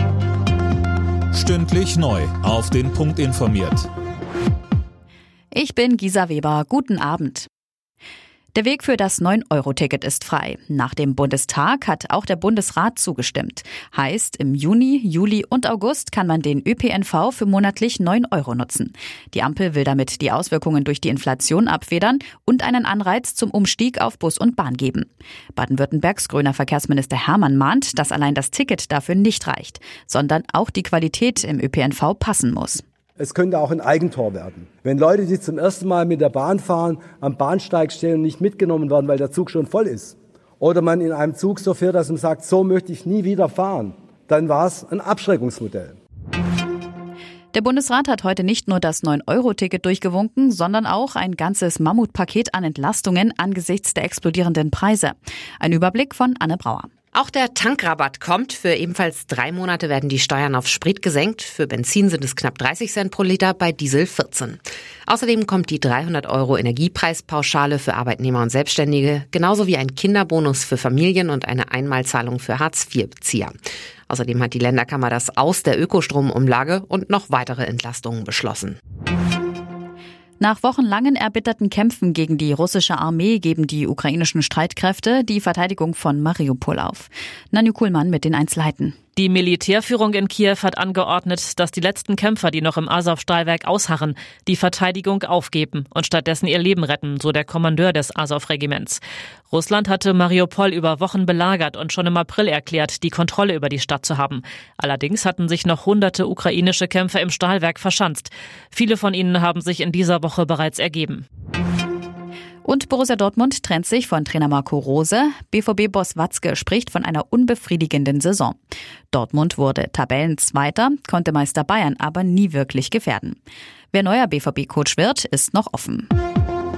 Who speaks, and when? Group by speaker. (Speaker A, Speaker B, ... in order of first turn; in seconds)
Speaker A: 1.3-3.9
Speaker B: 5.5-7.5, 8.6-32.8, 47.5-56.9, 80.4-89.0, 112.6-118.6, 119.1-123.4, 123.9-126.1
Speaker C: 33.2-46.0
Speaker D: 57.1-73.5, 74.1-78.8
Speaker E: 89.2-111.2